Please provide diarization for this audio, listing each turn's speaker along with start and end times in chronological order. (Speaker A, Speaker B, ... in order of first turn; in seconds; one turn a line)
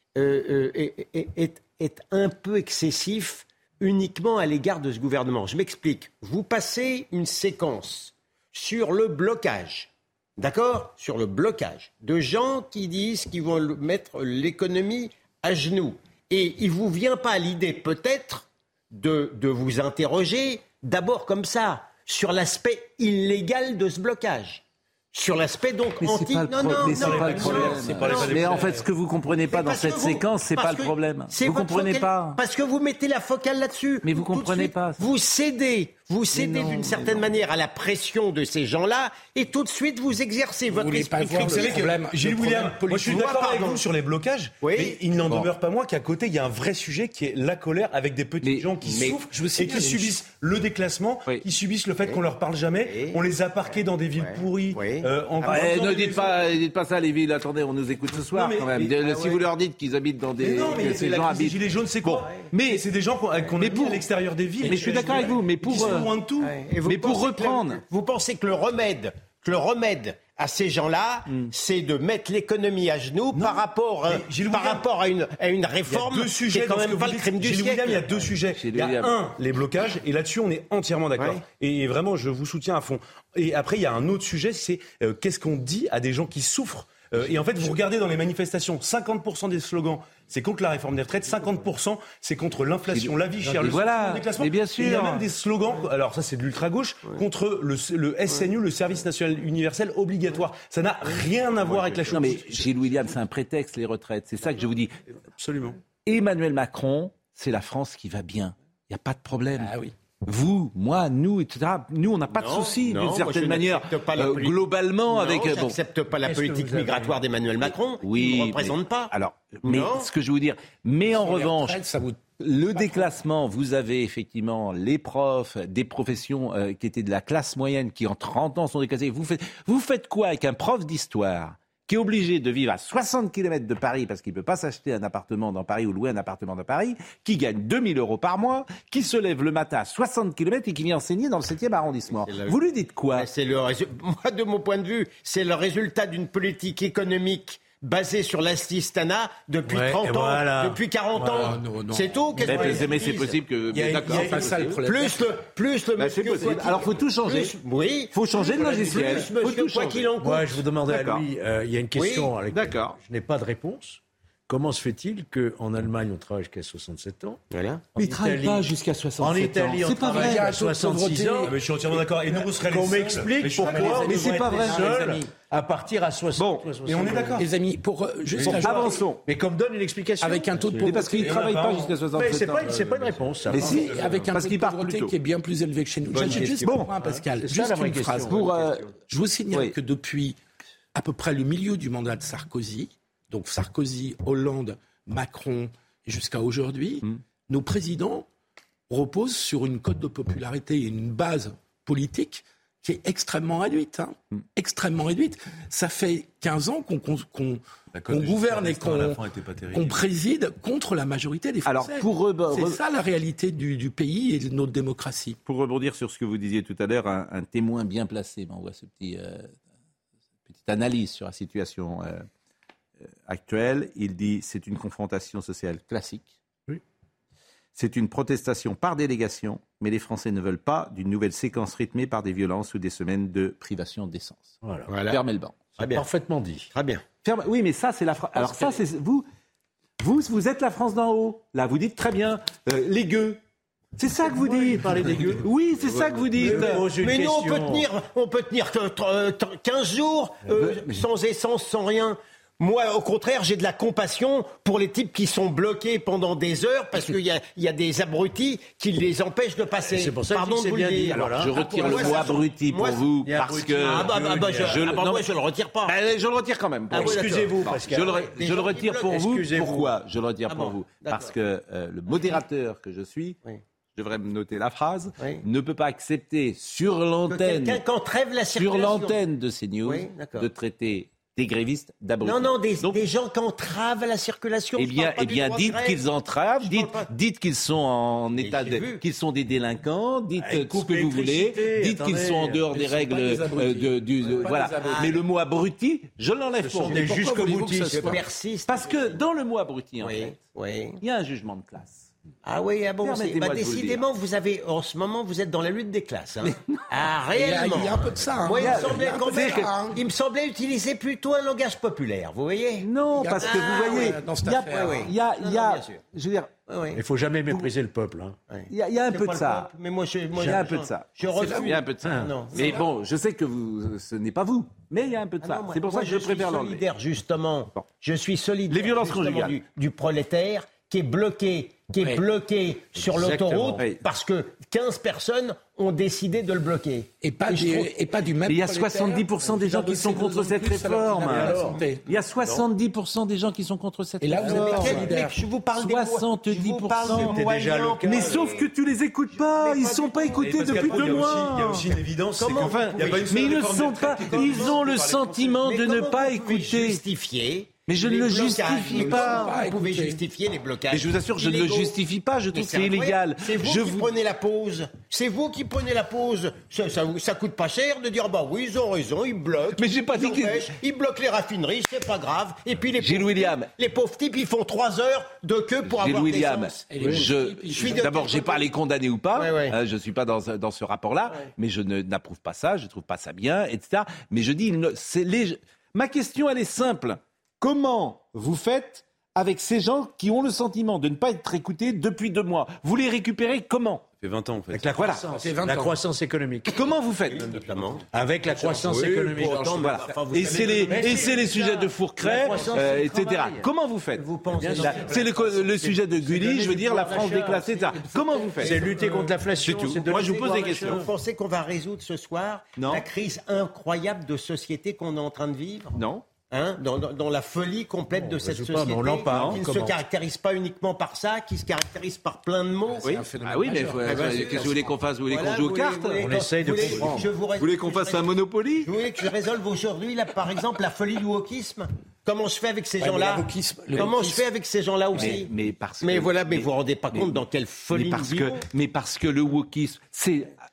Speaker A: 0.2-28.6
Speaker B: 26.0-32.4
Speaker C: 26.8-28.8
Speaker D: 27.6-28.8
Speaker A: 29.5-42.0
Speaker B: 34.0-35.1
Speaker B: 36.3-37.3
Speaker D: 40.7-43.4
Speaker C: 41.4-56.4
Speaker A: 43.0-43.8
Speaker A: 44.6-45.0
Speaker B: 48.4-48.7
Speaker A: 48.8-49.2
Speaker D: 49.3-50.2
Speaker A: 52.8-53.2
Speaker A: 54.2-55.7
Speaker B: 55.4-62.8
Speaker C: 58.2-59.2
Speaker C: 60.4-66.5
Speaker B: 63.6-64.1
Speaker B: 64.6-66.1
Speaker A: 64.8-65.3
Speaker A: 66.4-78.2
Speaker B: 66.8-67.8
Speaker C: 73.3-74.8
Speaker C: 75.9-102.6
Speaker B: 78.5-79.2
Speaker B: 92.9-95.2
Speaker B: 102.0-105.0
Speaker E: 105.4-105.8
Speaker B: 106.0-109.7
Speaker D: 109.6-109.9
Speaker B: 110.3-115.8
Speaker A: 112.3-119.1
Speaker E: 116.2-117.2
Speaker B: 118.0-121.8
Speaker A: 119.6-120.1
Speaker D: 121.1-123.1
Speaker B: 122.4-143.3
Speaker A: 142.1-142.6
Speaker A: 143.1-153.3
Speaker E: 149.7-151.6
Speaker D: 151.4-152.2
Speaker E: 152.4-153.0
Speaker B: 152.4-154.8
Speaker D: 153.7-155.3
Speaker E: 153.9-154.5
Speaker A: 154.8-160.7
Speaker B: 156.0-157.5
Speaker B: 158.1-160.1
Speaker E: 160.2-167.4
Speaker B: 160.9-161.3
Speaker A: 161.9-162.3
Speaker B: 162.5-163.0
Speaker A: 167.5-167.9
Speaker B: 168.0-170.5
Speaker E: 168.0-177.5
Speaker D: 170.1-171.6
Speaker C: 171.5-175.1
Speaker B: 173.6-175.2
Speaker B: 176.4-176.8
Speaker C: 176.8-177.4
Speaker D: 177.4-178.9
Speaker B: 178.4-179.2
Speaker E: 178.4-181.3
Speaker D: 180.2-181.3
Speaker B: 180.8-185.2
Speaker C: 181.2-182.4
Speaker E: 182.1-184.2
Speaker C: 183.5-184.2
Speaker D: 183.6-188.4
Speaker A: 186.1-186.8
Speaker B: 186.2-186.9
Speaker E: 187.0-188.9
Speaker B: 188.3-188.9
Speaker D: 189.1-190.4
Speaker D: 190.9-198.3
Speaker D: 198.9-215.4
Speaker C: 207.9-210.0
Speaker B: 211.7-212.8
Speaker B: 215.5-219.5
Speaker B: 220.5-222.3
Speaker B: 223.2-226.3
Speaker B: 227.8-234.6
Speaker E: 234.6-234.9
Speaker A: 234.9-235.2
Speaker B: 235.1-235.6
Speaker A: 235.8-236.1
Speaker E: 235.8-236.7
Speaker A: 236.7-237.0
Speaker B: 237.2-239.3
Speaker E: 238.4-238.7
Speaker B: 240.0-243.4
Speaker B: 244.0-246.8
Speaker E: 244.2-247.9
Speaker A: 246.4-263.1
Speaker E: 259.9-262.4
Speaker B: 261.4-265.3
Speaker E: 263.3-264.9
Speaker A: 263.8-266.0
Speaker B: 265.8-273.4
Speaker A: 266.9-269.3
Speaker E: 266.9-268.3
Speaker E: 269.1-269.9
Speaker A: 270.5-271.3
Speaker A: 272.1-272.4
Speaker B: 274.0-277.8
Speaker A: 275.2-275.4
Speaker A: 277.3-279.2
Speaker B: 278.6-283.0
Speaker A: 279.9-280.5
Speaker A: 282.2-286.0
Speaker B: 284.8-300.4
Speaker A: 286.6-287.1
Speaker A: 288.4-289.0
Speaker E: 290.4-292.7
Speaker D: 292.7-295.2
Speaker A: 294.8-295.2
Speaker E: 296.7-298.2
Speaker A: 296.9-297.2
Speaker D: 296.9-298.1
Speaker A: 297.9-299.2
Speaker A: 300.0-301.0
Speaker B: 301.0-302.1
Speaker A: 302.4-316.0
Speaker B: 303.0-304.1
Speaker B: 306.4-306.8
Speaker D: 307.3-310.0
Speaker B: 308.5-309.7
Speaker B: 312.8-316.5
Speaker D: 313.1-315.1
Speaker A: 316.7-317.0
Speaker E: 316.9-318.4
Speaker A: 318.5-322.8
Speaker B: 318.7-319.7
Speaker B: 320.4-326.9
Speaker D: 321.4-321.6
Speaker E: 322.0-322.3
Speaker A: 325.4-337.9
Speaker B: 328.7-329.6
Speaker E: 333.0-333.9
Speaker D: 337.2-342.1
Speaker B: 338.5-345.1
Speaker E: 341.2-341.8
Speaker A: 341.5-341.8
Speaker A: 342.4-342.7
Speaker D: 344.2-345.4
Speaker A: 344.4-348.7
Speaker B: 345.7-347.4
Speaker E: 347.0-348.5
Speaker B: 348.0-351.9
Speaker A: 349.3-351.5
Speaker C: 350.4-355.5
Speaker A: 352.4-353.6
Speaker B: 352.5-357.0
Speaker A: 354.2-354.8
Speaker A: 355.5-362.0
Speaker B: 357.9-359.6
Speaker D: 358.9-360.2
Speaker B: 360.9-364.1
Speaker A: 362.5-377.1
Speaker B: 369.8-370.7
Speaker B: 373.0-373.7
Speaker B: 375.8-394.2
Speaker D: 376.9-378.2
Speaker E: 377.0-377.3
Speaker A: 377.7-378.6
Speaker A: 379.3-379.8
Speaker C: 394.2-394.7
Speaker E: 394.7-396.8
Speaker B: 394.8-395.3
Speaker D: 395.4-396.0
Speaker B: 396.7-397.5
Speaker A: 397.3-398.1
Speaker E: 398.1-403.6
Speaker D: 398.6-399.5
Speaker A: 398.6-401.4
Speaker B: 399.6-409.0
Speaker A: 402.6-402.9
Speaker A: 404.2-405.2
Speaker E: 404.5-411.1
Speaker A: 408.6-409.3
Speaker B: 409.6-411.1
Speaker A: 410.4-423.2
Speaker B: 412.8-413.1
Speaker B: 415.9-416.2
Speaker E: 418.1-420.0
Speaker B: 419.3-419.6
Speaker D: 423.0-424.6
Speaker B: 423.0-426.2
Speaker A: 424.1-424.7
Speaker E: 424.1-424.9
Speaker A: 425.3-435.5
Speaker E: 426.2-427.3
Speaker B: 426.8-428.9
Speaker D: 433.0-434.4
Speaker B: 435.1-440.6
Speaker A: 436.0-438.6